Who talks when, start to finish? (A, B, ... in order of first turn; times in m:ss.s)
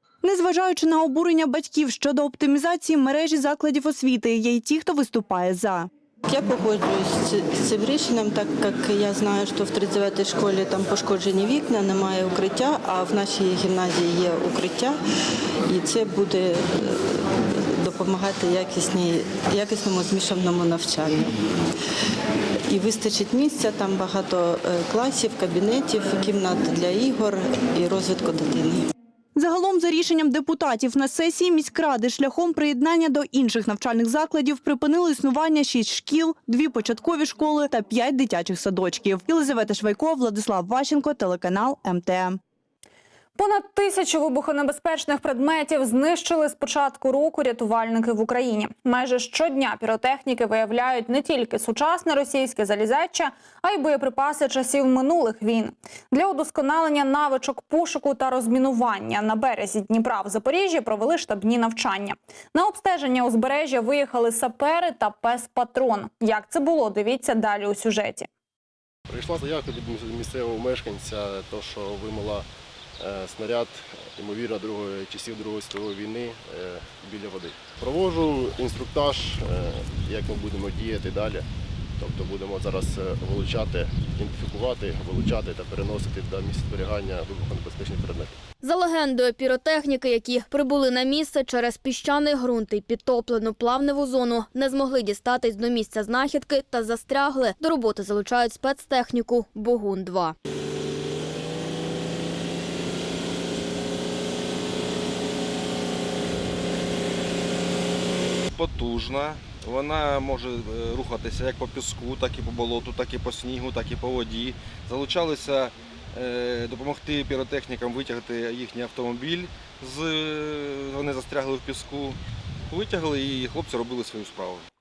0:00.2-0:05.9 A
0:06.3-0:15.0 B
0:15.7-0:21.4 B
0:22.7-0:28.9 B
0:29.4-0:42.4 A
0:43.4-1:08.3 C
1:09.1-1:12.5 D
1:13.0-1:21.5 D
1:22.0-1:28.4 D
1:28.6-1:40.4 E
1:48.5-2:02.2 F
2:02.7-2:04.6 F